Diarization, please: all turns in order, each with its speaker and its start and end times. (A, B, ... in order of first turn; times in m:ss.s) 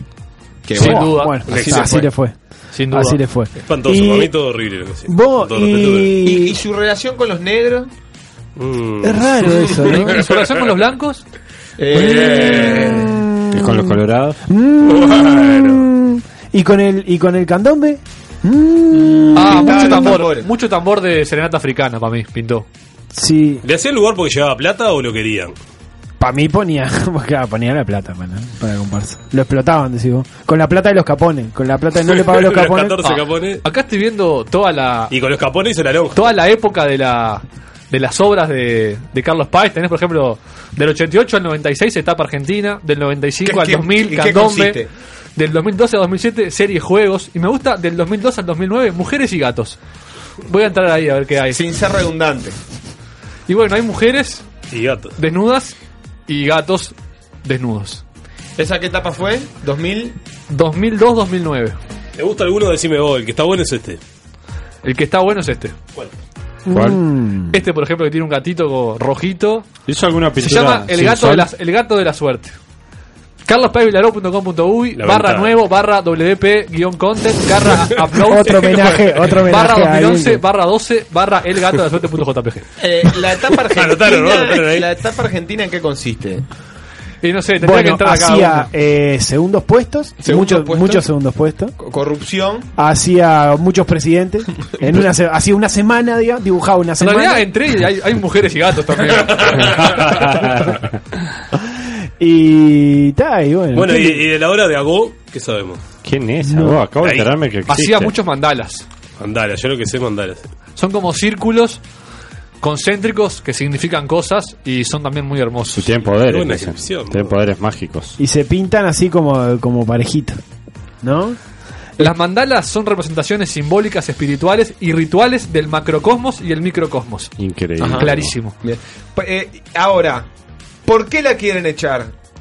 0:00.6-0:01.9 A
0:00.8-0:01.8 B
0:00.8-0:02.4 C
0:01.5-0:02.0 D
0:02.7-0:03.2 B
0:02.9-0:04.3 C
0:03.6-0:06.2 D
0:05.1-0:06.6 C
0:06.2-0:07.9 A
0:08.6-0:10.7 D
0:09.0-0:10.2 C
0:09.9-0:11.2 B
0:11.8-0:13.1 A
0:11.9-0:20.2 C
0:12.0-0:13.0 D
0:13.5-0:14.4 E
0:14.8-0:15.8 D
0:18.9-0:20.5 A
0:19.3-0:22.7 B
0:23.1-0:23.6 C
0:23.6-0:25.6 D
0:26.2-0:33.0 C
0:32.1-0:33.6 D
0:33.0-0:35.1 B
0:35.1-0:36.3 D
0:36.1-0:44.8 B
0:43.4-0:44.9 A
0:45.4-0:49.8 B
0:50.5-0:51.6 B
0:51.5-0:52.6 A
0:53.5-0:54.4 B
0:54.7-0:55.1 D
0:55.2-0:55.7 B
0:56.3-0:58.0 B
0:58.6-1:00.2 A
1:00.5-1:01.8 B
1:02.2-1:04.0 D
1:04.8-1:05.8 B
1:06.7-1:07.6 C
1:06.7-1:07.0 E
1:07.5-1:09.7 B
1:09.9-1:11.5 E
1:10.4-1:12.6 B
1:13.4-1:22.6 B
1:15.0-1:15.6 D
1:18.1-1:20.4 C
1:18.6-1:19.3 D
1:22.8-1:26.4 A
1:23.5-1:24.9 D
1:27.2-1:28.7 B
1:27.6-1:31.7 C
1:30.2-1:31.1 A
1:31.8-1:32.7 A
1:32.8-1:37.5 C
1:37.0-1:40.1 B
1:39.4-1:39.8 D
1:41.7-1:44.2 C
1:43.7-1:45.8 D
1:46.0-1:48.1 E
1:46.4-1:46.8 C
1:47.6-1:48.8 B
1:49.2-1:50.4 D
1:50.8-1:51.8 B
1:52.6-1:55.9 B
1:55.7-1:58.2 E
1:56.2-1:57.4 D
1:58.2-2:00.4 C
2:01.0-2:01.4 C
2:02.0-2:07.3 B
2:07.4-2:08.4 E
2:07.8-2:10.3 A
2:08.0-2:08.6 B
2:10.8-2:12.1 A